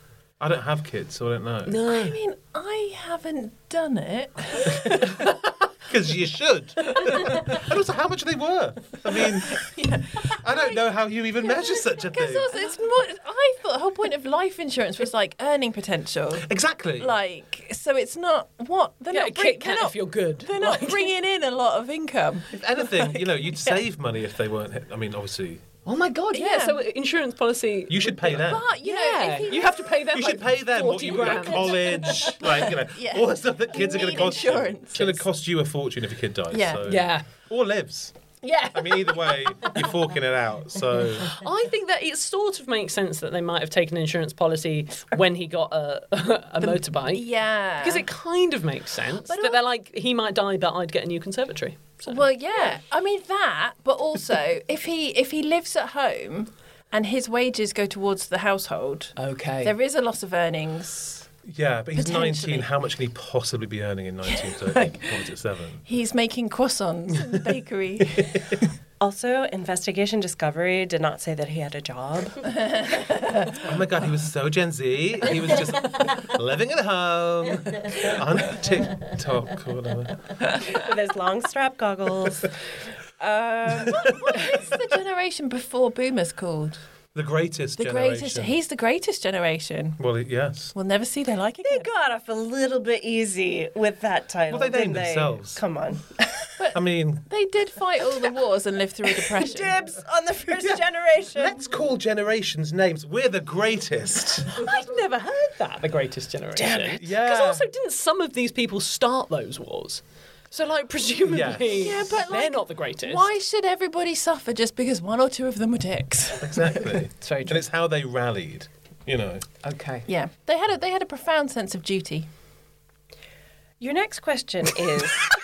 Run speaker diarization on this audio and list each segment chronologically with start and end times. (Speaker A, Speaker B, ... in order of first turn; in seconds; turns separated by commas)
Speaker A: 0.4-1.8, Speaker B: 1.7-2.2, Speaker C: 1.9-5.2, Speaker A: 4.8-9.7, Speaker C: 9.5-23.8, Speaker A: 10.2-12.5, Speaker A: 16.4-17.1, Speaker B: 19.1-21.1, Speaker A: 22.5-25.6, Speaker B: 25.9-32.3, Speaker C: 26.3-26.8, Speaker A: 27.9-28.7, Speaker C: 28.3-30.1, Speaker A: 30.1-38.1, Speaker C: 31.3-35.2, Speaker C: 36.5-37.0, Speaker B: 36.9-37.3, Speaker C: 38.4-39.4, Speaker A: 38.7-41.4, Speaker B: 41.3-52.6, Speaker C: 46.6-48.1, Speaker C: 49.3-49.6, Speaker C: 52.1-61.3, Speaker B: 59.2-59.7, Speaker A: 61.5-65.8, Speaker C: 62.0-62.7, Speaker C: 64.2-65.3, Speaker C: 65.9-68.4, Speaker A: 68.2-68.6, Speaker D: 69.0-72.5, Speaker C: 72.6-73.6, Speaker A: 73.6-80.6, Speaker D: 80.6-82.5, Speaker D: 83.2-84.2, Speaker C: 83.9-86.8, Speaker A: 87.1-88.5, Speaker C: 87.8-90.0, Speaker A: 90.0-90.7, Speaker C: 90.7-91.9, Speaker D: 91.6-96.3, Speaker A: 94.5-95.6, Speaker C: 96.6-99.8, Speaker A: 96.7-97.2, Speaker D: 99.2-101.6, Speaker A: 101.3-104.6, Speaker B: 104.5-113.3, Speaker D: 106.6-107.0, Speaker A: 107.0-107.6, Speaker A: 111.3-112.0, Speaker C: 111.7-117.0, Speaker A: 116.4-119.5, Speaker B: 117.2-117.6, Speaker B: 119.6-120.1, Speaker C: 120.1-122.3, Speaker D: 123.8-125.3